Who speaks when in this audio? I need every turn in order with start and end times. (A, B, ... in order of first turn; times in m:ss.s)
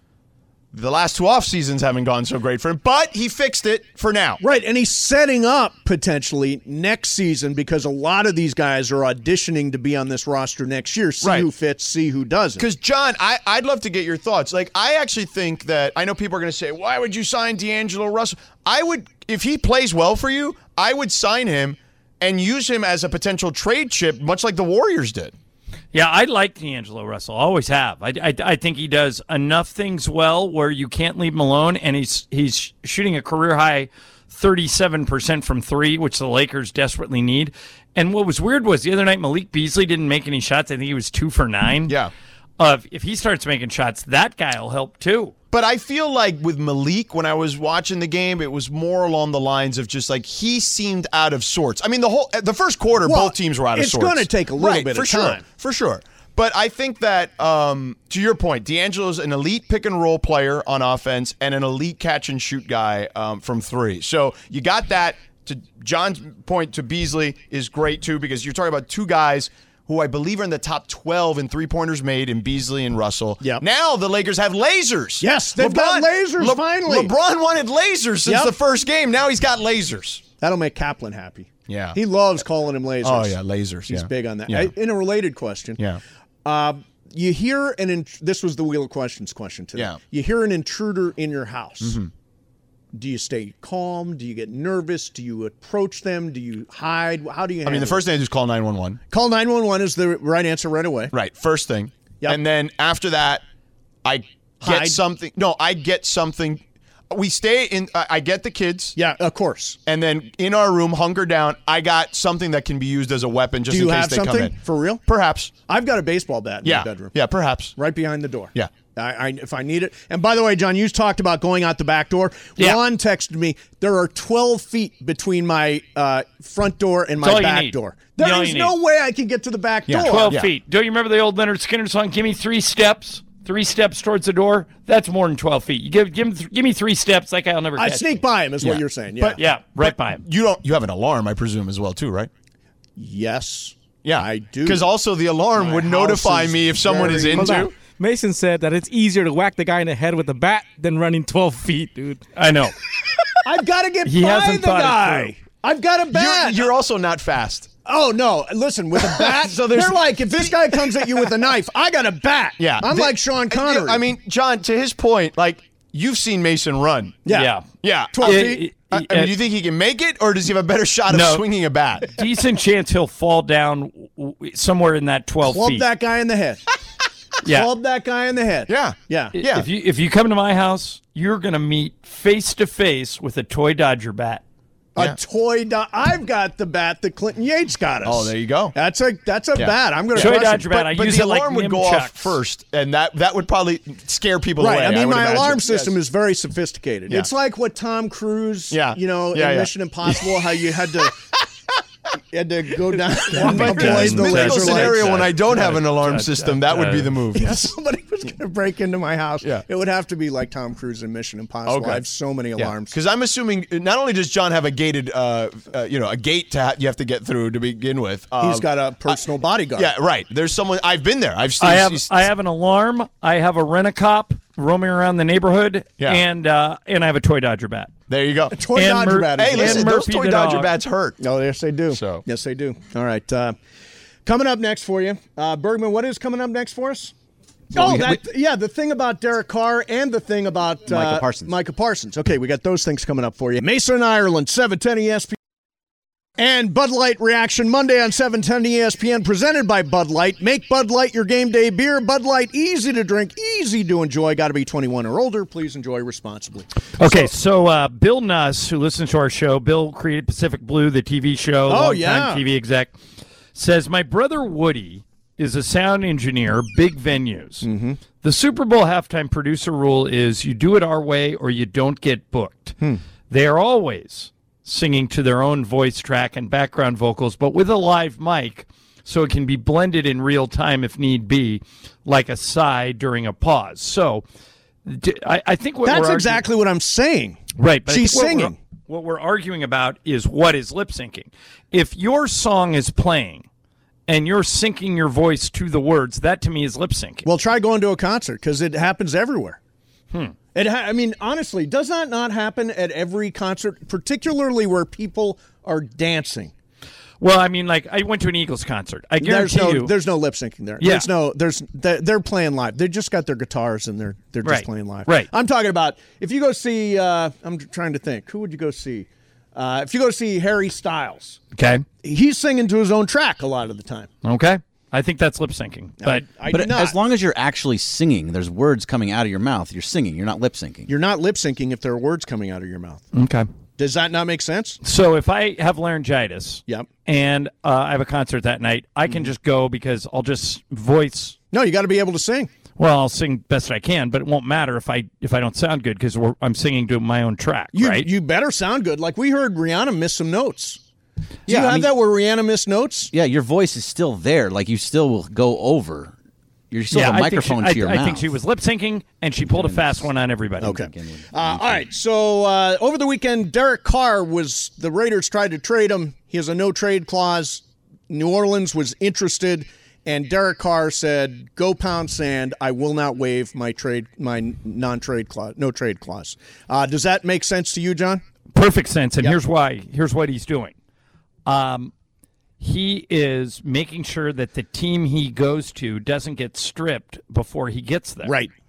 0:00.7-0:04.4 A
0:04.4-0:12.6 B
0:11.2-0:11.5 A
0:12.6-0:25.3 A
0:25.9-0:41.9 C
0:42.6-0:45.3 C
0:45.5-1:20.2 A
0:53.0-0:55.4 B
1:15.2-1:17.1 B
1:18.2-1:18.5 B
1:20.4-1:25.8 B
1:21.7-1:22.0 A
1:23.0-1:24.7 A
1:26.4-1:32.0 B
1:31.8-1:32.1 A
1:32.9-1:38.0 B
1:37.6-1:39.0 A
1:39.1-1:41.1 B
1:41.1-1:43.4 A
1:44.0-1:49.0 A
1:44.6-1:45.0 B
1:49.0-1:49.8 B
1:49.8-1:55.5 A
1:53.7-1:55.0 B
1:55.7-1:57.1 B
1:56.6-1:57.8 A
1:57.8-2:10.3 B
2:07.2-2:08.8 C
2:09.9-2:10.5 A
2:10.1-2:18.2 C
2:17.8-2:19.4 B
2:18.6-2:22.3 A
2:19.4-2:20.2 C
2:23.0-2:24.9 B
2:24.0-2:27.7 A
2:25.5-2:27.7 B
2:27.1-2:32.2 D
2:32.3-2:32.7 C
2:33.4-2:36.7 B
2:34.0-2:35.3 C
2:36.1-2:37.7 A
2:37.8-2:44.0 B
2:39.1-2:41.0 A
2:42.6-2:47.2 A
2:47.2-2:47.5 B
2:47.3-2:47.7 C
2:47.8-2:52.1 A
2:48.1-2:48.7 B
2:48.2-2:49.3 C
2:51.1-2:51.4 C
2:52.1-2:55.8 C
2:55.4-2:56.6 B
2:57.4-2:57.7 C
2:57.4-2:59.4 B
2:58.7-2:59.7 A
2:59.3-3:04.4 C
3:05.0-3:10.7 B
3:08.0-3:08.7 A
3:09.6-3:16.0 A
3:10.2-3:12.4 C
3:14.6-3:21.2 B
3:18.7-3:20.4 A
3:22.3-3:25.4 B
3:23.2-3:27.6 A
3:23.3-3:27.1 C
3:27.3-3:32.9 B
3:31.6-3:32.0 A
3:32.6-3:39.2 A
3:38.4-3:39.9 B
3:39.8-3:42.1 A
3:41.6-3:47.9 C
3:48.1-3:48.6 A
3:48.5-3:49.9 B
3:48.7-3:50.7 C
3:49.4-3:51.2 A
3:51.2-3:53.6 B
3:51.9-3:52.2 A
3:54.2-3:57.1 B
3:57.7-4:05.4 B
3:57.7-3:58.2 E
4:00.9-4:01.5 E
4:06.4-4:17.3 B
4:17.0-4:22.9 C
4:21.7-4:22.4 B
4:23.5-4:27.6 C
4:27.6-4:28.0 B
4:28.2-4:32.8 C
4:33.3-4:44.2 C
4:44.8-4:46.4 C
4:45.8-4:48.6 B
4:47.6-4:53.5 C
4:54.1-4:57.2 C
4:57.2-4:59.6 B
5:00.5-5:06.5 B
5:07.2-5:09.9 C
5:09.2-5:21.4 B
5:10.8-5:11.1 C
5:14.4-5:15.3 C
5:21.5-5:21.8 C
5:22.0-5:24.1 B
5:24.2-5:26.3 C
5:26.0-5:27.0 B
5:26.5-5:30.9 E
5:30.9-5:33.0 B
5:33.1-5:33.4 C
5:33.8-5:34.8 B
5:34.8-5:41.4 C
5:41.5-5:42.5 B
5:42.8-5:48.1 C
5:47.7-5:50.8 B
5:51.5-5:51.9 E
5:51.5-5:53.1 B
5:53.1-5:56.1 E
5:56.7-5:58.3 E
5:56.9-6:00.8 C
5:59.4-6:00.1 E
6:00.6-6:18.2 B
6:00.6-6:01.9 E
6:18.5-6:20.7 C
6:21.4-6:21.9 C
6:22.6-6:28.3 C
6:28.2-6:28.5 B